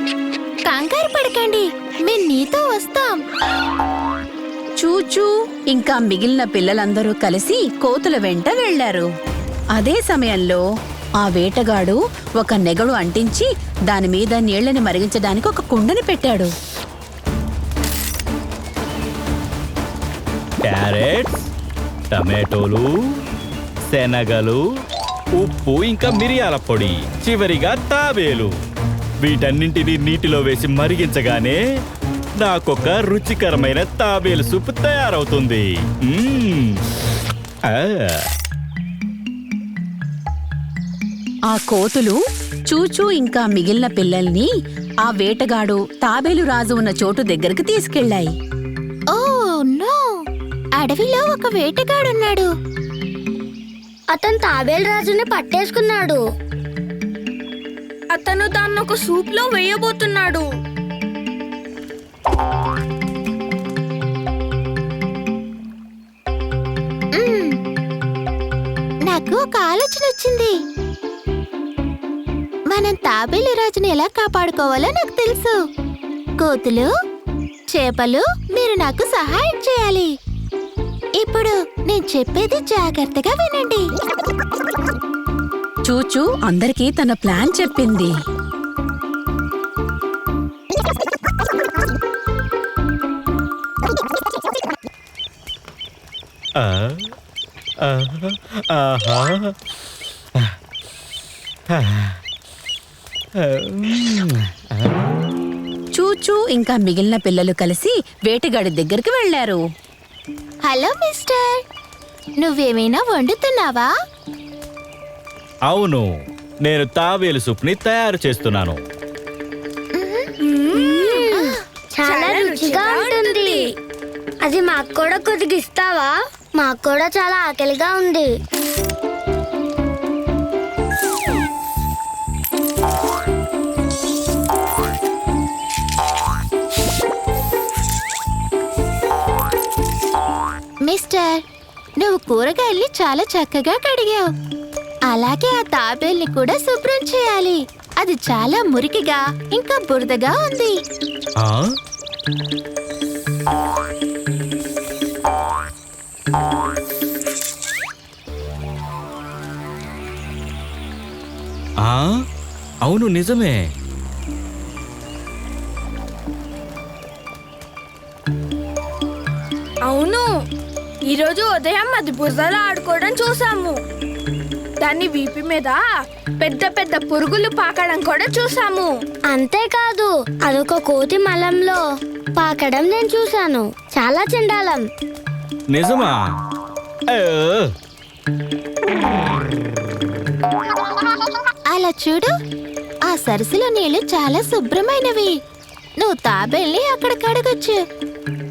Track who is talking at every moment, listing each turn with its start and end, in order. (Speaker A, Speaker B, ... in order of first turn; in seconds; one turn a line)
Speaker A: 0.6-3.2
Speaker B: 4.8-9.1
Speaker B: 9.8-10.6
Speaker B: 11.2-16.5
Speaker C: 20.6-21.5
Speaker C: 22.1-22.9
Speaker C: 23.9-24.6
Speaker C: 25.4-28.5
Speaker C: 29.2-31.6
Speaker C: 32.4-36.8
Speaker C: 37.7-38.3
Speaker B: 41.5-44.5
Speaker B: 45.0-48.3
Speaker A: 49.1-50.0
Speaker A: 50.8-52.5
Speaker D: 54.1-56.2
Speaker E: 58.1-60.4
Speaker A: 67.1-67.5
Speaker A: 69.0-70.5
Speaker A: 72.7-75.5
Speaker A: 76.4-76.9
Speaker A: 77.7-80.1
Speaker A: 81.2-83.8
Speaker B: 85.8-88.1
Speaker C: 96.6-97.1
Speaker C: 97.8-99.5
Speaker C: 101.7-102.2
Speaker C: 103.4-105.0
Speaker B: 105.9-109.6
Speaker A: 110.6-111.6
Speaker A: 112.4-113.9
Speaker C: 115.7-116.0
Speaker C: 116.6-118.8
Speaker A: 119.9-120.3
Speaker E: 120.4-121.2
Speaker D: 120.7-121.4
Speaker D: 121.9-123.6
Speaker E: 122.0-123.7
Speaker D: 124.4-128.3
Speaker A: 140.8-141.4
Speaker A: 142.0-144.3
Speaker A: 145.1-150.7
Speaker C: 151.4-151.6
Speaker C: 161.8-162.2
Speaker C: 162.8-163.7
Speaker E: 169.8-170.3
Speaker E: 171.1-173.8
Speaker E: 174.8-175.8
Speaker E: 176.4-178.9
Speaker D: 179.3-181.8
Speaker D: 182.3-184.8
Speaker C: 185.7-186.2
Speaker C: 187.1-187.7
Speaker A: 191.7-192.3
Speaker A: 193.1-195.3
Speaker A: 196.0-197.8